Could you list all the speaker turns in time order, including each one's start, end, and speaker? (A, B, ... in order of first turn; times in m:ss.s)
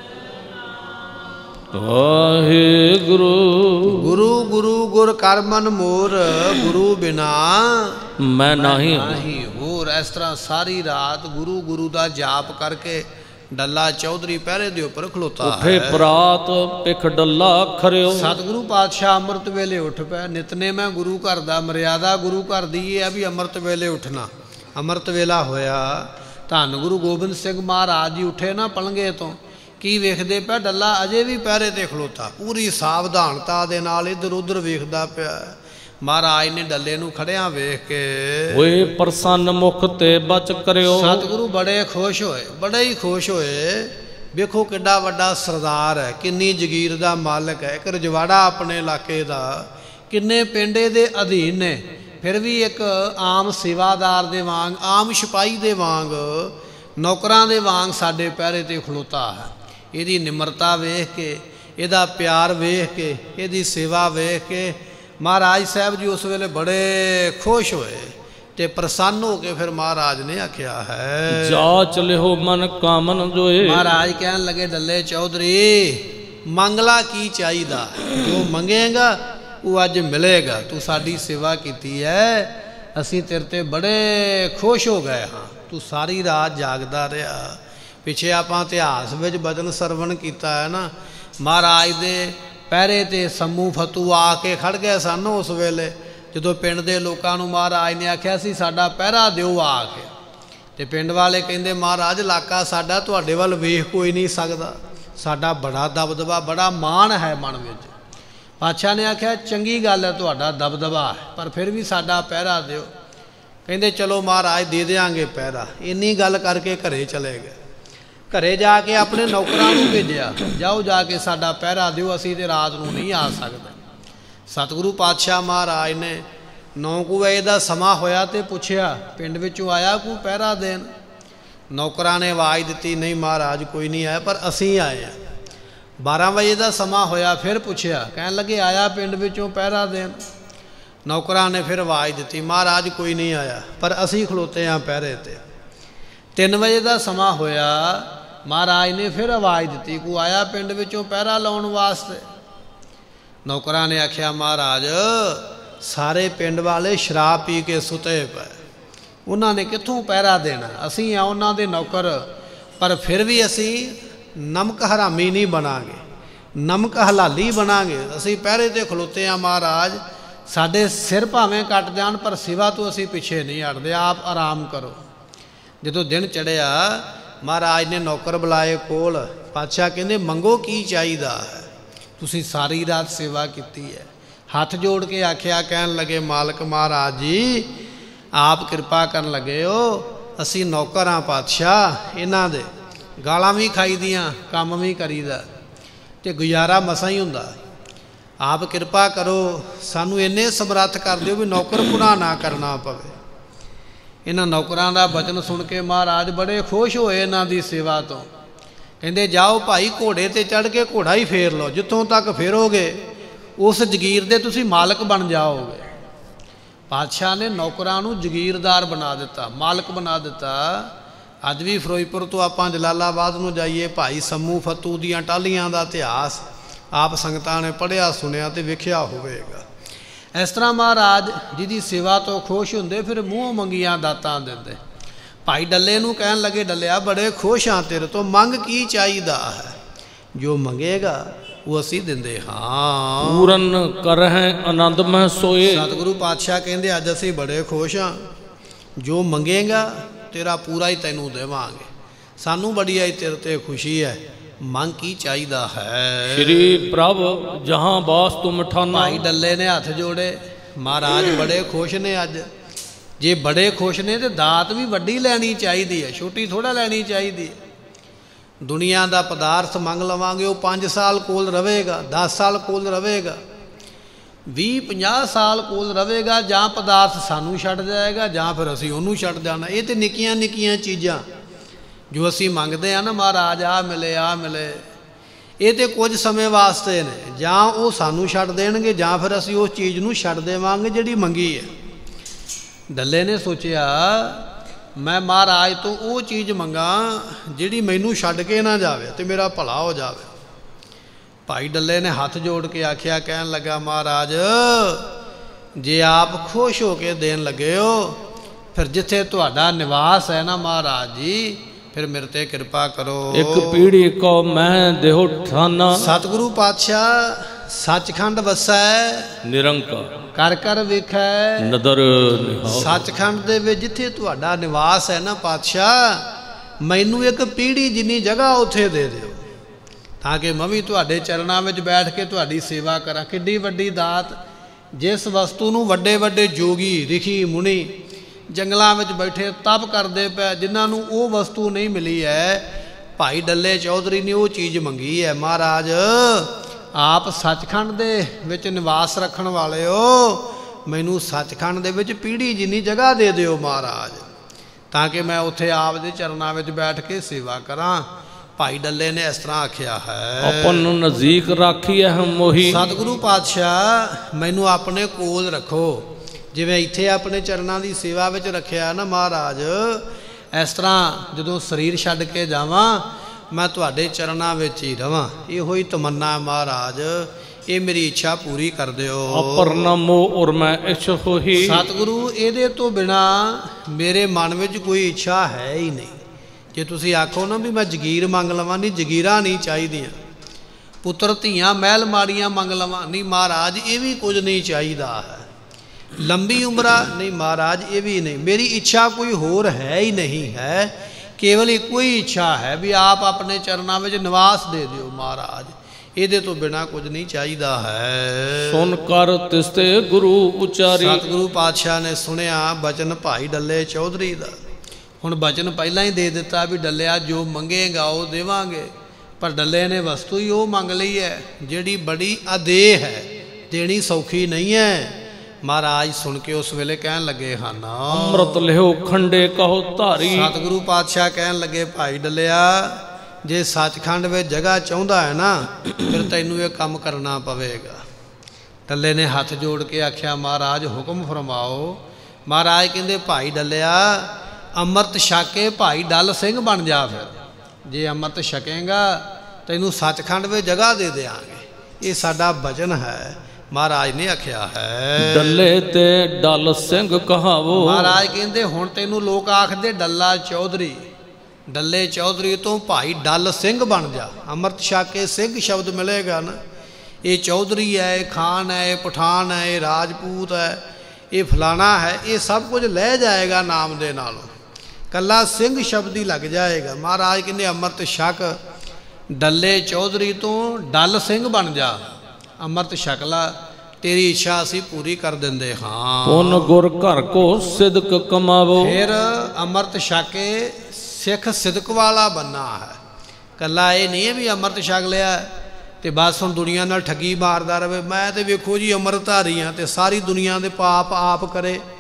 0:01.7-0:04.1 A
0:03.9-0:16.1 B
0:08.2-0:09.2 A
0:15.4-0:18.3 A
0:18.1-0:38.7 B
0:38.5-0:41.3 A
0:40.8-1:11.7 B
1:11.3-1:13.9 A
1:13.6-1:40.1 B
1:40.8-1:47.9 B
1:48.6-1:52.9 B
1:53.7-1:57.6 B
1:58.3-2:03.8 B
2:04.5-2:06.2 B
2:06.8-2:10.9 B
2:11.7-2:15.2 B
2:16.0-2:20.2 B
2:21.1-2:25.4 B
2:26.4-2:32.3 B
2:33.5-2:38.6 B
2:39.3-2:42.2 B
2:42.8-2:46.0 B
2:46.6-2:55.0 B
2:55.8-3:01.7 B
3:02.2-3:07.7 B
3:08.4-3:15.4 B
3:16.2-3:17.6 B
3:18.4-3:23.1 B
3:24.3-3:28.3 B
3:29.0-3:33.0 B
3:33.6-3:35.9 B
3:36.9-3:40.9 B
3:41.4-3:46.4 B
3:46.9-3:49.6 B
3:50.4-3:54.8 B
3:55.5-3:59.8 B
4:00.4-4:03.6 B
4:03.2-4:05.9 A
4:05.7-4:08.2 B
4:09.0-4:11.9 B
4:12.4-4:16.9 B
4:16.2-4:19.2 A
4:18.9-4:22.5 B
4:23.2-4:27.6 B
4:28.6-4:33.4 B
4:34.5-4:41.2 B
4:42.1-4:44.8 B
4:45.6-4:51.7 B
4:52.9-4:54.5 B
4:55.0-5:00.3 B
5:01.5-5:05.1 B
5:05.8-5:08.2 B
5:08.7-5:13.9 B
5:13.3-5:16.1 A
5:15.9-5:19.4 B
5:19.4-5:20.1 A
5:20.4-5:21.8 B
5:21.6-5:23.0 A
5:22.7-5:26.3 B
5:26.8-5:29.4 B
5:30.2-5:34.4 B
5:35.0-5:37.9 B
5:38.5-5:42.6 B
5:43.2-5:54.3 B
5:54.9-6:00.9 B
6:00.4-6:02.8 A
6:02.6-6:19.8 B
6:19.3-6:21.8 A
6:21.6-6:26.2 B
6:26.8-6:30.2 B
6:31.0-6:35.5 B
6:36.2-6:48.9 B
6:48.6-6:51.2 A
6:50.9-6:54.6 B
6:55.2-7:08.6 B
7:08.1-7:10.5 A
7:10.3-7:18.0 B
7:18.9-7:35.7 B
7:35.2-7:38.2 A
7:37.8-7:41.1 B
7:41.7-7:46.6 B
7:47.2-7:50.8 B
7:51.3-7:54.5 B
7:55.1-7:58.6 B
7:59.3-8:06.7 B
8:06.2-8:09.0 A
8:08.8-8:13.0 B
8:13.6-8:15.5 B
8:16.0-8:21.8 B